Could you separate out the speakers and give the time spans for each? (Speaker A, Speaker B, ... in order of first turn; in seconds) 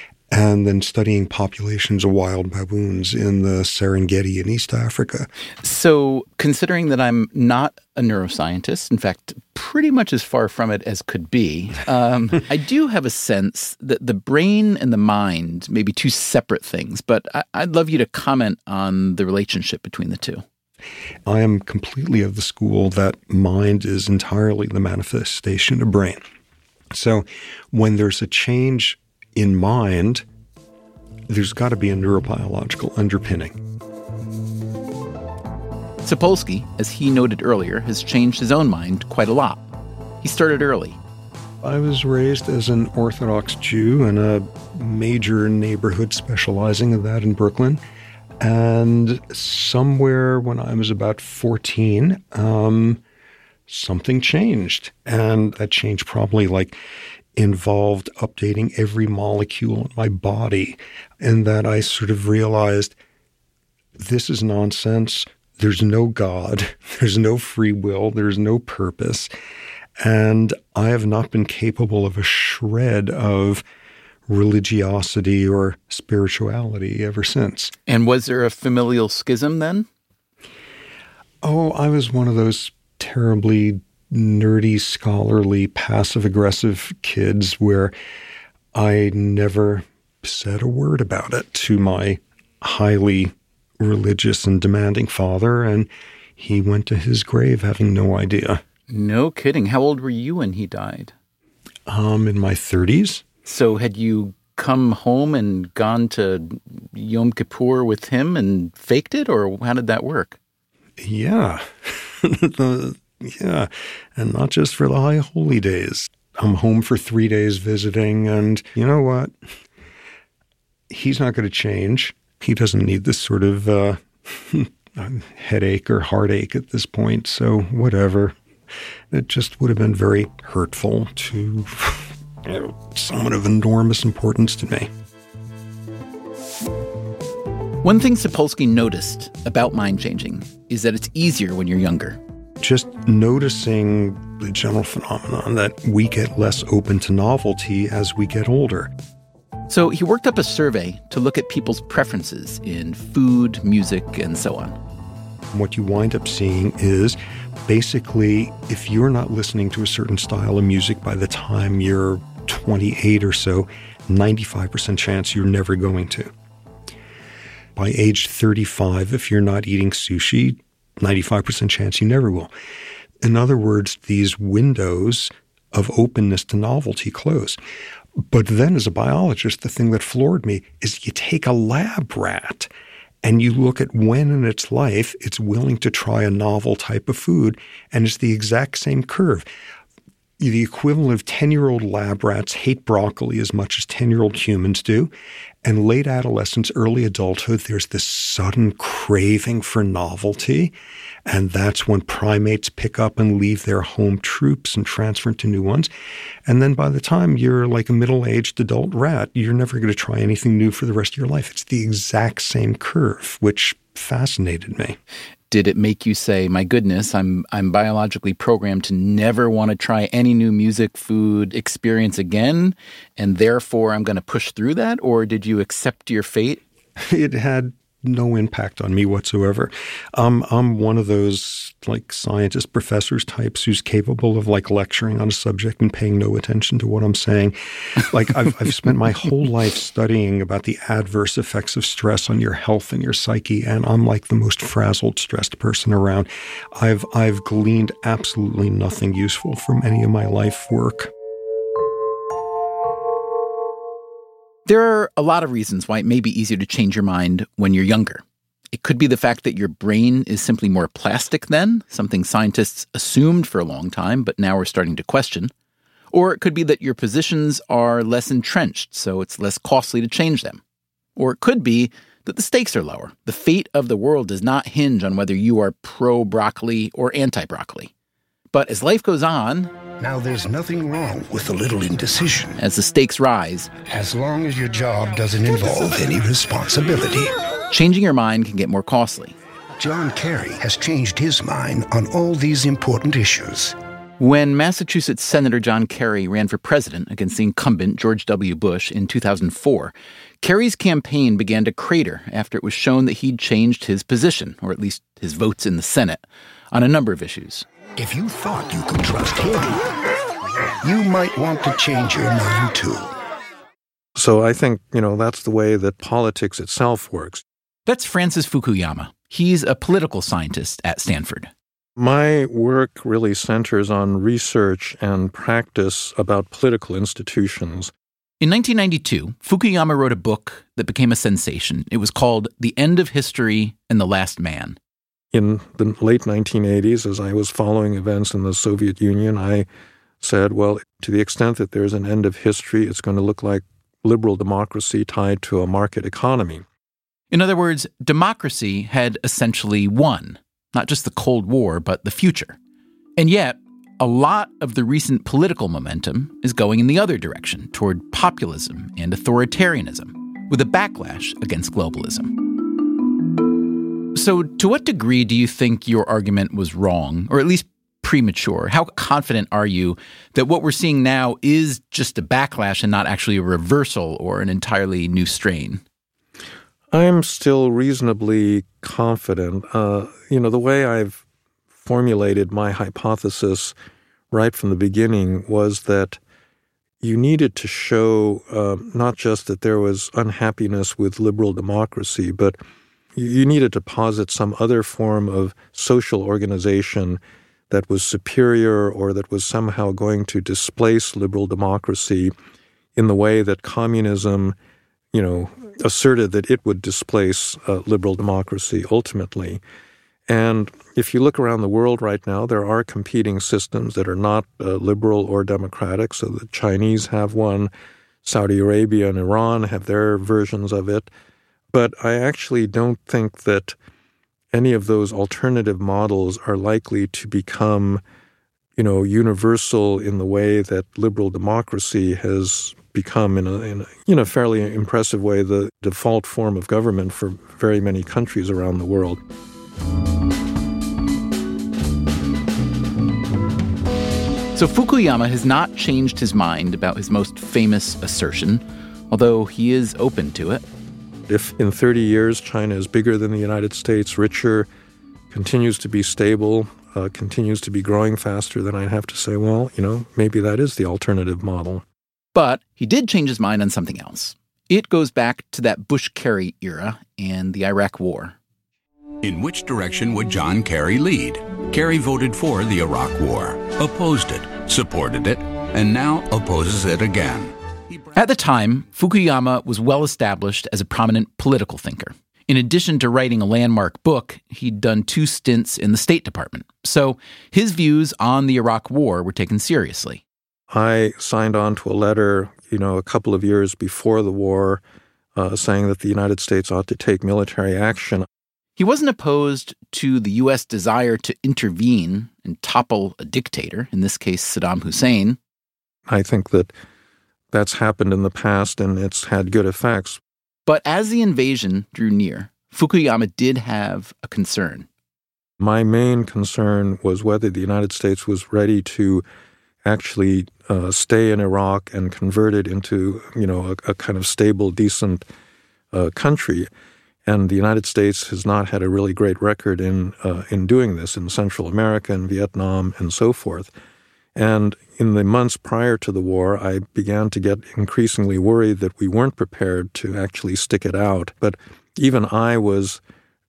Speaker A: 0.3-5.3, 21.2-26.2, 26.9-30.2, 31.3-33.6, 41.6-47.8, 48.4-53.0, 53.7-56.8, 57.4-63.0, 64.0-69.3, 70.0-73.6, 74.3-77.7, 81.4-87.9, 88.7-98.6, 101.9-103.2, 111.0-119.3, 120.9-128.3, 129.1-134.9, 142.6-148.9, 155.5-166.3, 167.8-172.5, 173.2-177.6, 178.2-182.7, 183.2-189.5, 190.4-195.1, 195.6-200.7, 201.2-205.9, 206.4-215.0, 227.0-251.1
Speaker B: 5.6-20.4, 36.0-39.7, 40.2-41.0, 77.9-79.9, 98.9-101.1, 103.5-110.4, 137.8-142.2, 149.7-154.8, 215.5-226.6, 254.7-265.5, 266.1-270.6, 271.1-277.9, 278.5-279.7, 282.6-283.7, 287.7-289.4, 294.2-307.6, 317.9-321.5, 328.4-334.8, 347.3-352.6, 353.2-362.5, 364.1-375.8, 444.5-450.6, 462.3-468.4, 478.1-490.2, 498.8-505.4, 510.6-514.9
Speaker C: 280.0-282.6, 283.9-287.3, 289.8-293.7, 308.0-309.9, 310.8-313.1
Speaker D: 314.1-317.4, 322.0-327.9, 335.3-339.6, 340.2-346.6, 376.9-381.2, 381.8-383.7, 384.3-386.2, 387.0-392.6, 393.1-402.3, 402.9-404.5, 405.1-409.6, 410.3-417.7, 418.2-421.1, 421.7-423.7, 424.5-428.0, 428.8-439.2, 451.3-454.7, 455.3-461.8, 490.7-494.8, 495.4-498.3, 506.1-506.7, 507.5-510.2, 515.6-519.2, 519.8-525.2, 525.9-526.7, 527.2-533.7, 534.4-543.0
Speaker E: 469.2-477.5